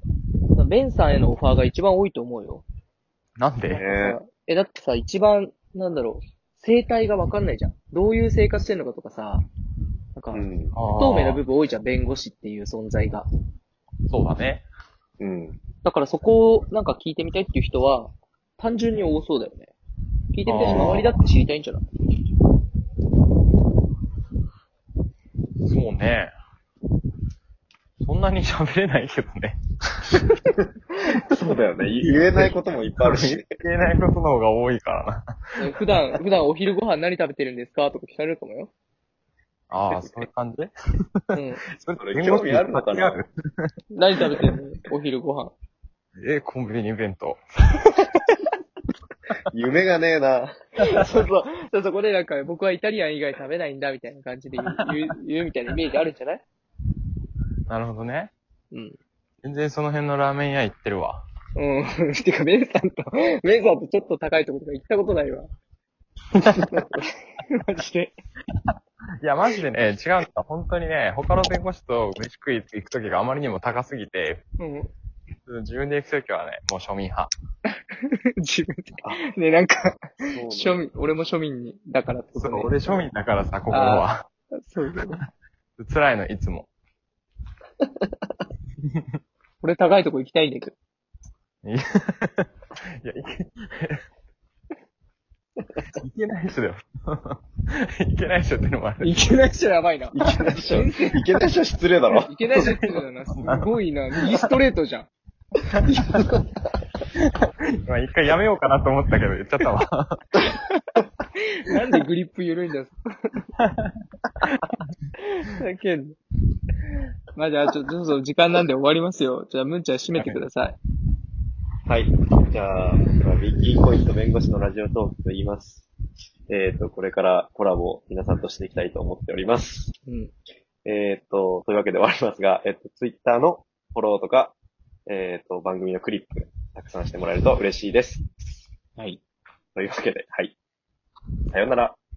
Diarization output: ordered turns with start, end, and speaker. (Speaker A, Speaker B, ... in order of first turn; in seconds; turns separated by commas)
Speaker A: 0.5-2.6, Speaker B: 3.4-3.8, Speaker C: 3.7-4.2, Speaker A: 3.7-9.4, Speaker A: 10.2-13.3, Speaker C: 10.3-10.7, Speaker B: 10.7-11.4, Speaker B: 14.1-14.6, Speaker C: 15.2-15.6, Speaker A: 15.8-19.7, Speaker A: 20.3-21.8, Speaker B: 20.5-21.2, Speaker B: 25.6-26.3, Speaker B: 28.0-30.3, Speaker C: 31.3-33.5, Speaker B: 32.0-35.2, Speaker A: 35.6-38.7, Speaker B: 39.7-40.7, Speaker A: 41.3-41.6, Speaker B: 41.8-43.7, Speaker C: 42.0-43.2, Speaker A: 43.9-45.5, Speaker B: 46.2-47.4, Speaker C: 49.5-50.5, Speaker A: 50.8-56.4, Speaker B: 57.7-58.3, Speaker A: 58.7-59.0, Speaker B: 59.4-61.2, Speaker A: 61.6-65.5, Speaker B: 66.3-66.7, Speaker A: 67.4-68.1, Speaker B: 69.2-74.4, Speaker A: 74.6-74.9, Speaker B: 75.5-77.3, Speaker A: 78.4-83.1, Speaker C: 80.3-80.8, Speaker B: 82.4-84.2, Speaker A: 83.7-85.2, Speaker B: 85.8-86.7, Speaker A: 89.6-90.8, Speaker B: 91.6-92.5, Speaker B: 93.0-94.0, Speaker B: 95.9-97.4, Speaker B: 98.0-99.2, Speaker A: 99.0-101.2, Speaker C: 100.1-102.3, Speaker A: 102.2-105.1, Speaker B: 102.6-103.7, Speaker B: 105.9-106.2, Speaker B: 107.9-110.2, Speaker A: 110.4-110.8, Speaker A: 111.4-113.4, Speaker B: 113.6-114.8, Speaker A: 115.4-116.2, Speaker A: 117.3-120.8, Speaker C: 121.9-125.9, Speaker C: 126.5-129.9, Speaker A: 130.1-130.3, Speaker C: 130.8-134.6, Speaker C: 135.1-138.3, Speaker C: 139.8-140.6, Speaker C: 141.5-142.0